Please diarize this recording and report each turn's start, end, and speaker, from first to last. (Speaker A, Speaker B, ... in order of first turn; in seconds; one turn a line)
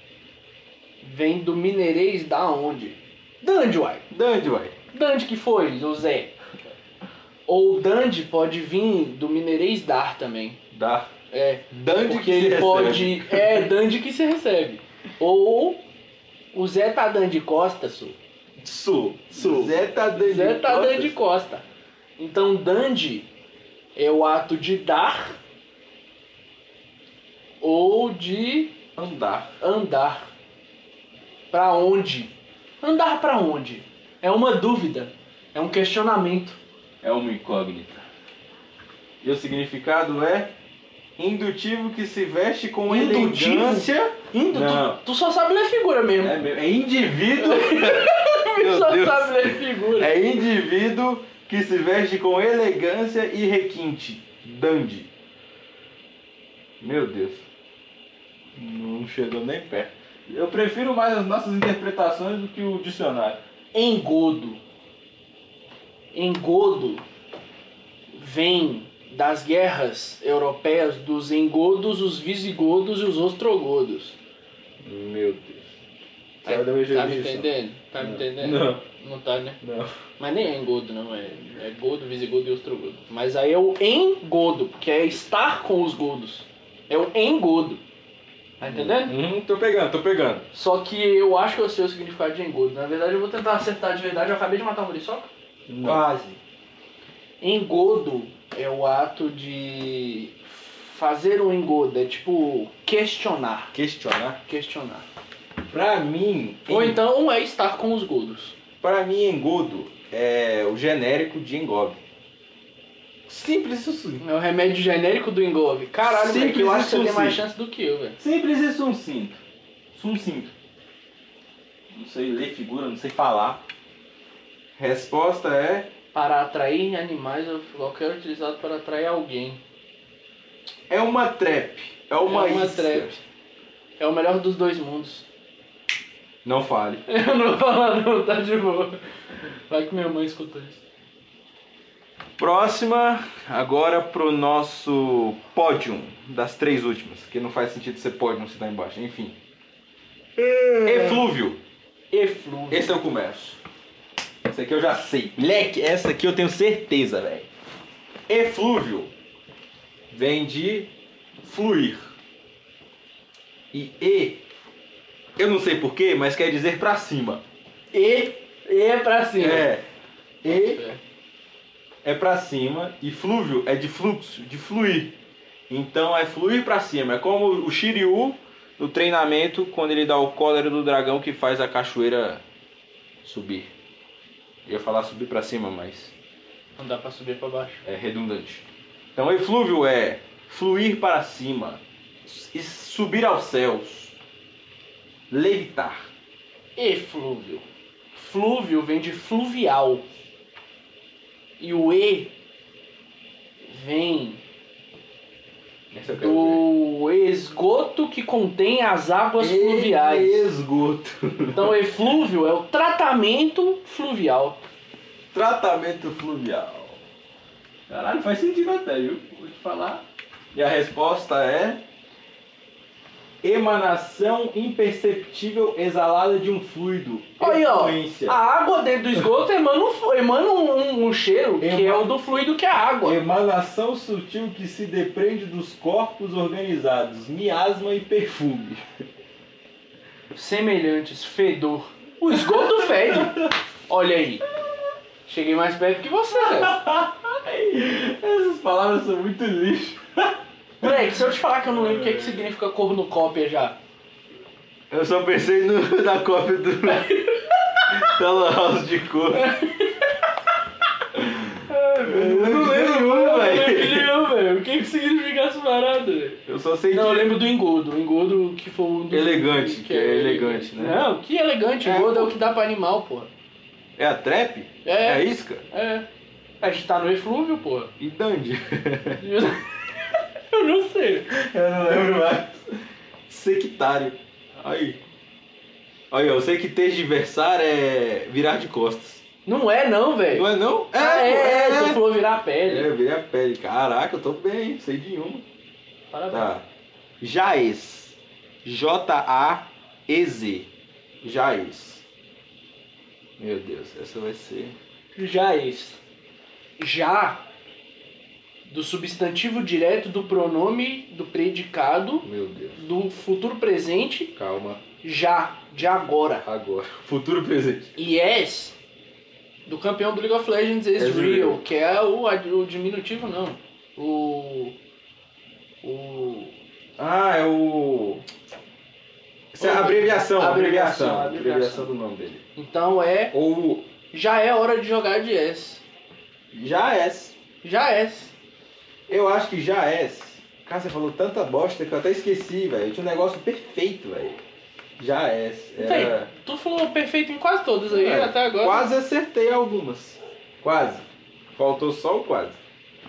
Speaker A: 1.0-4.0
Speaker B: 4.1-4.8
Speaker A: 4.9-6.3
Speaker A: 7.5-10.6
Speaker B: 10.7-11.1
Speaker A: 11.3-15.8
Speaker B: 11.7-13.7
Speaker A: 16.5-18.2
Speaker B: 18.6-21.1
Speaker A: 19.3-21.6
Speaker A: 22.2-23.3
Speaker A: 24.0-25.4
Speaker A: 27.6-28.7
Speaker B: 29.0-29.5
Speaker A: 29.6-30.3
Speaker A: 31.5-36.6
Speaker B: 37.0-38.1
Speaker B: 39.2-40.5
Speaker B: 41.2-45.0
Speaker A: 42.9-46.4
Speaker B: 46.2-55.1
Speaker A: 47.4-50.2
Speaker B: 56.8-57.5
Speaker B: 58.5-63.4
Speaker A: 63.7-64.6
Speaker A: 66.1-67.0
Speaker A: 68.1-74.2
Speaker B: 74.8-75.7
Speaker B: 76.4-78.8
Speaker A: 76.5-79.6
Speaker B: 79.6-79.9
Speaker A: 80.2-87.8
Speaker A: 88.6-89.2
Speaker B: 88.6-90.5
Speaker A: 90.5-95.3
Speaker B: 95.7-96.3
Speaker A: 95.8-96.3
Speaker A: 97.4-103.7
Speaker B: 103.7-104.4
Speaker A: 104.5-105.0
Speaker B: 105.7-107.0
Speaker A: 106.7-108.6
Speaker B: 108.8-112.0
Speaker B: 113.3-114.2
Speaker A: 114.2-118.2
Speaker B: 116.0-117.4
Speaker B: 118.2-119.4
Speaker B: 120.0-120.5
Speaker B: 121.9-123.6
Speaker B: 124.8-125.9
Speaker A: 126.1-129.6
Speaker B: 130.9-133.2
Speaker A: 132.2-133.1
Speaker A: 134.0-135.3
Speaker B: 136.4-137.0
Speaker A: 137.1-139.0
Speaker A: 139.7-140.8
Speaker B: 142.4-149.4
Speaker B: 150.4-151.6
Speaker A: 150.9-151.2
Speaker A: 152.1-152.9
Speaker B: 152.7-153.6
Speaker B: 154.4-157.5
Speaker B: 158.3-159.1
Speaker B: 160.1-160.9
Speaker B: 161.4-162.2
Speaker B: 163.7-164.4
Speaker B: 165.4-167.4
Speaker A: 167.9-169.7
Speaker B: 169.4-169.8
Speaker B: 170.4-170.8
Speaker A: 170.5-171.0
Speaker B: 172.0-175.1
Speaker B: 175.7-182.4
Speaker B: 183.2-183.7
Speaker B: 184.7-186.1
Speaker A: 186.8-187.8
Speaker B: 187.8-188.6
Speaker B: 189.2-194.2
Speaker B: 195.3-196.1
Speaker A: 196.8-200.1
Speaker A: 201.6-202.3
Speaker A: 203.7-204.4
Speaker B: 205.9-206.7
Speaker A: 206.1-210.5
Speaker B: 209.4-211.9
Speaker A: 211.5-214.6
Speaker B: 215.3-217.0
Speaker B: 217.9-221.8
Speaker B: 223.4-228.4
Speaker A: 227.4-233.2
Speaker B: 231.6-232.1
Speaker B: 233.0-238.8
Speaker A: 240.3-244.4
Speaker B: 242.3-243.5
Speaker A: 245.3-246.8
Speaker B: 246.3-251.1
Speaker A: 250.8-253.8
Speaker B: 251.6-252.5
Speaker B: 254.9-257.1
Speaker A: 256.9-257.9
Speaker B: 257.9-259.5
Speaker A: 259.3-260.3
Speaker B: 261.1-264.1
Speaker A: 261.7-273.3
Speaker B: 266.5-267.4
Speaker B: 269.1-271.0
Speaker B: 271.8-272.3
Speaker B: 274.0-275.6
Speaker A: 274.9-276.1
Speaker A: 276.6-277.9
Speaker B: 278.0-279.3
Speaker A: 279.2-281.3
Speaker B: 281.3-282.6
Speaker B: 283.3-285.0
Speaker B: 286.1-289.2
Speaker A: 289.5-292.9
Speaker B: 290.3-292.0
Speaker B: 292.6-295.4
Speaker A: 296.1-296.5
Speaker B: 296.3-296.6
Speaker B: 297.2-300.7
Speaker B: 301.2-302.0
Speaker B: 303.4-304.8
Speaker A: 305.2-306.0
Speaker A: 306.8-307.4
Speaker A: 308.6-314.3
Speaker B: 312.2-312.8
Speaker B: 314.4-314.8
Speaker A: 315.0-316.4
Speaker B: 316.4-317.9
Speaker A: 318.0-318.8
Speaker A: 319.7-324.8
Speaker B: 321.0-321.6
Speaker A: 325.8-326.5
Speaker B: 327.0-328.2
Speaker B: 329.5-332.4
Speaker A: 329.6-331.9
Speaker A: 332.6-333.3
Speaker B: 333.3-333.9
Speaker A: 334.1-335.8
Speaker B: 336.5-337.4
Speaker A: 337.6-338.3
Speaker B: 339.1-344.4
Speaker B: 345.0-346.3
Speaker A: 345.8-348.9
Speaker B: 347.9-352.6